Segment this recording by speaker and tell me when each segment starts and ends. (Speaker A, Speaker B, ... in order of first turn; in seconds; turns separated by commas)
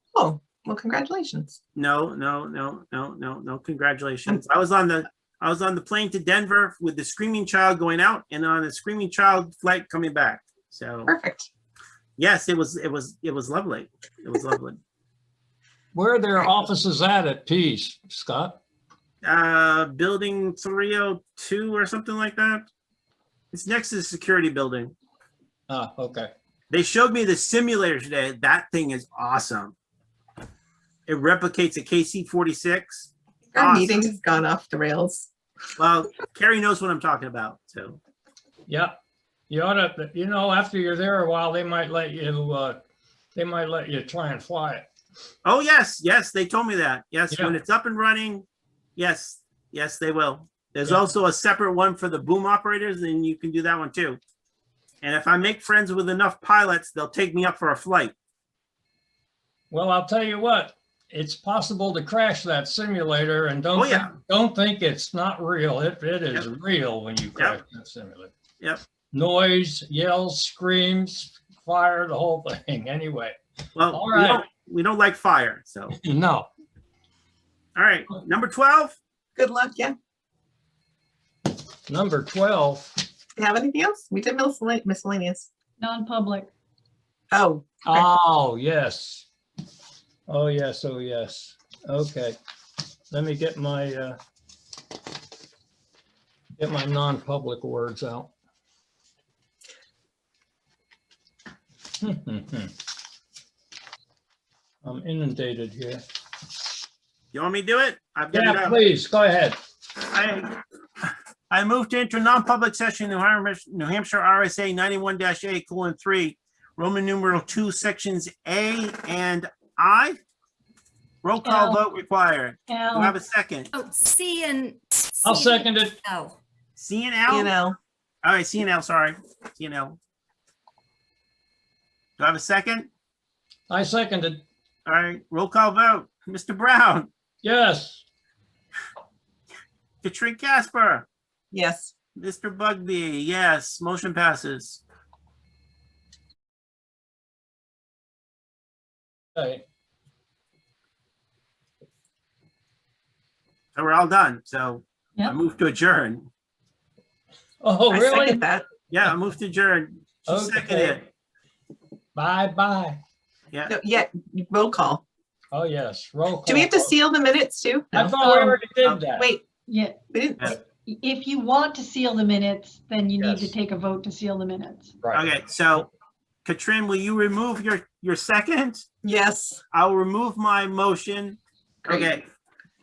Speaker A: 0.1-1.6, Speaker B: 1.7-11.1, Speaker A: 11.1-11.5, Speaker B: 12.2-14.8, Speaker C: 15.9-18.6, Speaker B: 19.2-22.7, Speaker B: 23.5-24.9, Speaker C: 25.7-26.3, Speaker B: 26.7-29.7, Speaker B: 31.1-34.0, Speaker A: 33.5-35.3, Speaker B: 35.8-38.0, Speaker C: 38.7-39.0, Speaker C: 39.5-42.8, Speaker C: 43.3-44.9, Speaker B: 45.4-54.2, Speaker C: 47.3-47.5, Speaker B: 55.0-58.1, Speaker C: 59.7-68.3, Speaker B: 63.7-64.1, Speaker C: 69.1-73.3, Speaker B: 73.7-76.0, Speaker C: 73.9-74.4, Speaker C: 76.0-76.5, Speaker B: 77.8-79.0, Speaker A: 79.3-79.9, Speaker C: 81.9-83.0, Speaker A: 83.4-85.5, Speaker D: 85.8-86.5, Speaker A: 87.3-88.1, Speaker C: 87.8-89.3, Speaker C: 90.3-92.3, Speaker C: 93.1-94.2, Speaker C: 96.6-98.3, Speaker C: 102.0-102.7, Speaker C: 104.8-106.0, Speaker B: 107.3-108.8, Speaker C: 108.3-109.5, Speaker B: 110.0-110.6, Speaker B: 111.5-120.2, Speaker B: 121.2-123.7, Speaker D: 121.4-121.8, Speaker D: 122.7-123.1, Speaker E: 123.7-126.4, Speaker C: 125.2-126.0, Speaker B: 126.8-127.5, Speaker A: 127.3-127.8, Speaker B: 128.2-130.0, Speaker B: 132.2-132.9, Speaker C: 133.7-134.4, Speaker B: 134.8-137.1, Speaker C: 137.4-138.0, Speaker B: 140.0-141.1, Speaker A: 141.5-141.9, Speaker B: 142.2-144.8, Speaker C: 149.3-149.6, Speaker B: 153.7-156.3, Speaker C: 157.6-158.4, Speaker A: 157.9-158.7, Speaker B: 158.9-161.1, Speaker C: 160.3-161.0, Speaker C: 162.1-163.0, Speaker A: 163.7-165.0, Speaker C: 165.5-166.9, Speaker A: 166.4-168.2, Speaker C: 167.9-169.3, Speaker D: 168.2-168.6, Speaker A: 169.2-169.4, Speaker D: 169.7-170.0, Speaker A: 170.1-170.6, Speaker D: 170.5-174.9, Speaker C: 173.2-173.5, Speaker C: 175.0-175.3, Speaker B: 175.1-175.9, Speaker B: 176.4-178.8, Speaker A: 179.0-179.6, Speaker B: 179.7-182.2